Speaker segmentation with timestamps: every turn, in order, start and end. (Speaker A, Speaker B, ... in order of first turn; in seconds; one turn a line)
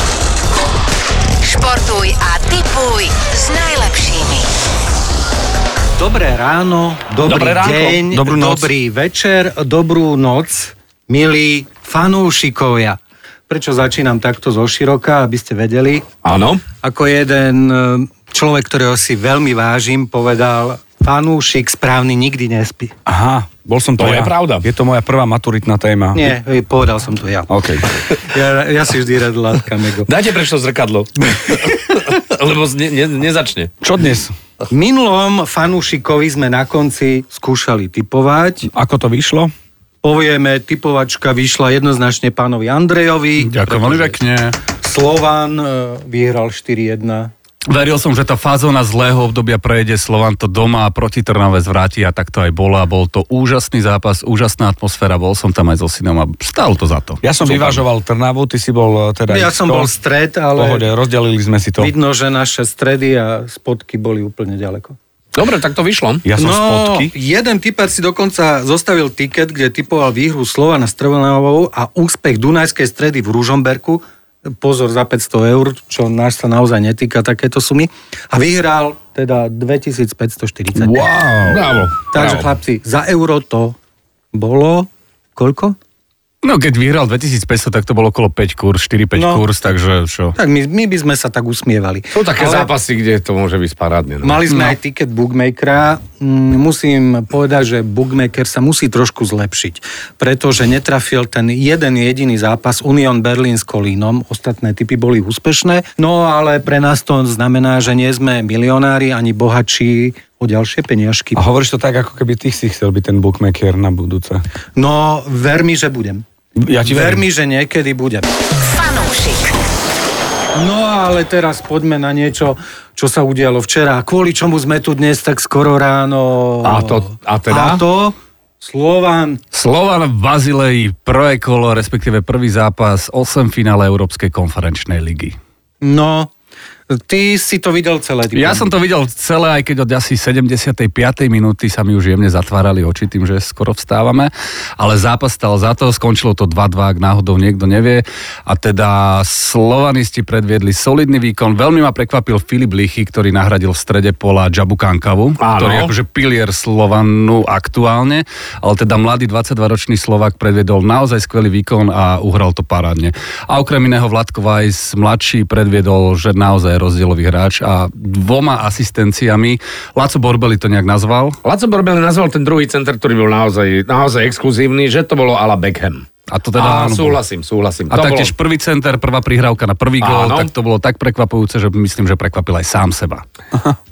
Speaker A: 1.4-4.5
Speaker B: 6.0-16.1
Speaker C: 7.2-8.0
Speaker D: 8.1-8.7
Speaker C: 16.2-16.6
Speaker B: 16.8-22.9
Speaker D: 23.1-26.3
Speaker C: 24.0-24.7
Speaker B: 26.1-27.5
Speaker D: 27.5-27.9
Speaker B: 28.2-30.1
Speaker C: 30.1-33.7
Speaker D: 33.8-34.3
Speaker B: 34.7-38.7
Speaker D: 38.7-39.5
Speaker B: 40.0-43.5
Speaker E: 43.4-44.6
Speaker B: 44.8-47.3
Speaker E: 47.7-57.8
Speaker D: 57.2-59.9
Speaker B: 59.3-60.9
Speaker D: 60.6-61.9
Speaker B: 61.8-65.0
Speaker C: 65.3-66.2
Speaker D: 66.2-67.1
Speaker B: 66.4-74.0
Speaker B: 74.6-81.6
Speaker C: 80.8-82.5
Speaker B: 82.1-83.8
Speaker B: 84.3-85.8
Speaker E: 86.4-90.4
Speaker B: 89.1-89.7
Speaker B: 90.3-92.7
Speaker C: 92.1-94.4
Speaker B: 94.2-111.4
Speaker E: 94.5-94.8
Speaker D: 111.3-114.4
Speaker B: 114.8-116.2
Speaker D: 116.6-117.2
Speaker B: 116.8-118.3
Speaker A: 118.7-119.2
Speaker B: 120.5-129.4
Speaker C: 126.6-127.8
Speaker E: 129.5-135.4
Speaker B: 135.8-136.3
Speaker B: 136.9-138.7
Speaker E: 138.3-171.4
Speaker C: 155.4-155.9
Speaker C: 171.4-178.3
Speaker E: 176.3-177.2
Speaker E: 177.9-183.2
Speaker C: 180.0-180.5